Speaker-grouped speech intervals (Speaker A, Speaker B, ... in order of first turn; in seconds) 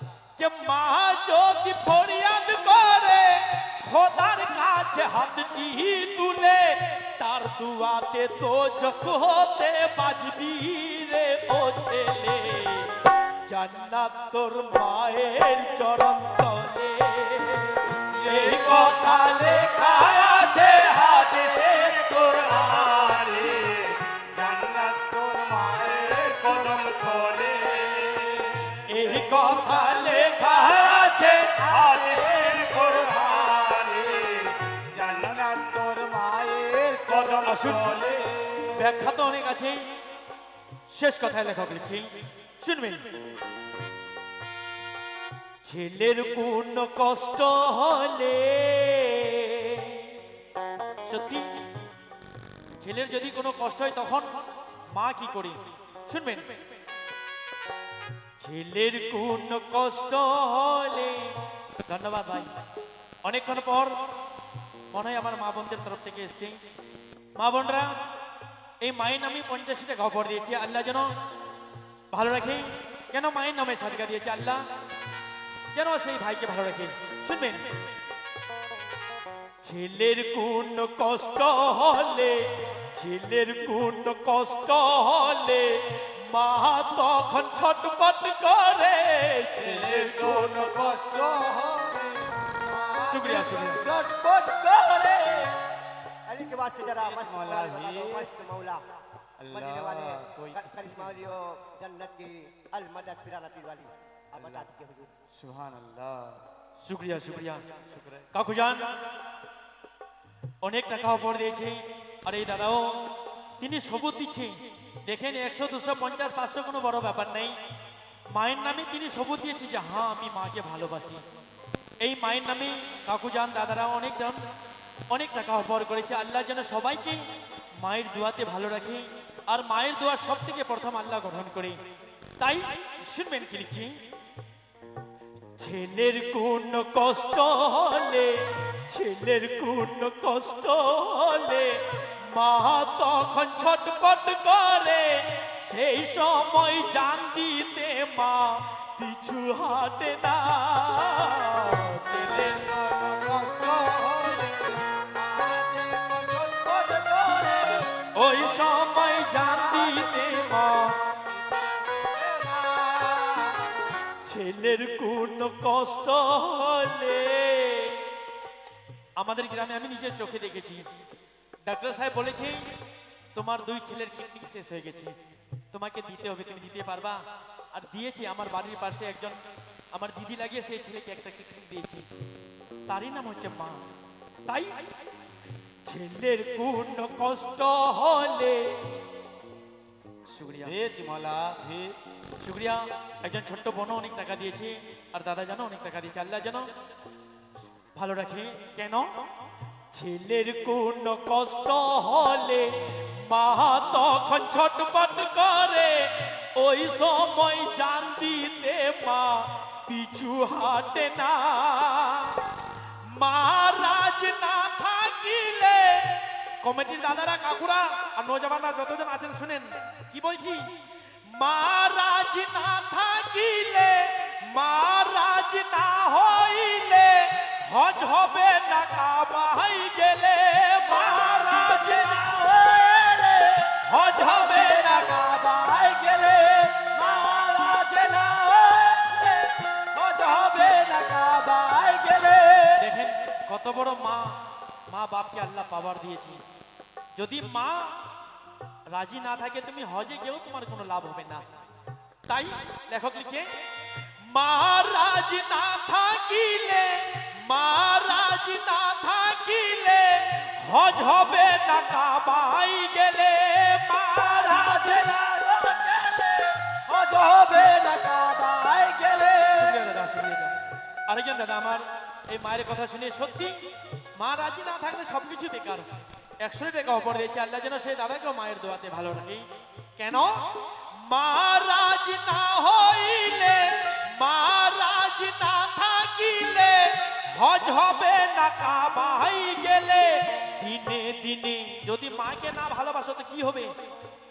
Speaker A: 0.4-20.9, 28.9-31.6, 37.4-38.0, 38.8-39.8, 40.9-43.1, 45.6-50.1, 51.1-51.5, 52.8-56.5, 58.4-61.3, 61.9-62.5, 63.2-64.0, 64.9-66.6, 67.4-68.0, 68.8-71.1, 72.1-74.6, 75.7-77.7, 79.6-90.7, 93.1-93.8, 106.8-107.6, 108.3-108.8, 110.6-113.0, 113.6-117.6, 118.3-121.2, 122.0-124.4, 125.1-127.2, 127.8-131.8, 132.4-134.0, 135.6-152.6, 158.1-161.0, 164.2-168.0, 169.2-170.9, 171.7-172.7, 173.3-175.2, 175.7-177.2, 177.7-179.4, 179.9-182.1, 182.9-183.8, 184.5-184.8, 185.9-188.8, 190.3-190.8, 192.4-196.7, 197.9-199.1, 199.9-212.4, 213.1-220.7, 221.3-232.2, 233.9-235.1, 242.8-244.3, 244.9-246.4, 247.2-247.9, 248.9-251.4, 252.3-253.5, 254.2-265.0, 269.5-270.5, 271.1-273.6, 274.1-275.9, 276.4-279.4, 280.0-293.7
Speaker B: 18.1-19.0, 20.0-28.8, 30.9-38.8, 89.6-95.6, 97.0-98.3, 99.4-101.3, 104.3-104.7, 105.3-106.4, 107.9-108.3, 152.1-157.9, 159.3-160.1, 161.9-163.9, 190.6-192.0, 231.0-242.9, 264.1-269.8
Speaker C: 96.3-98.8, 99.5-105.1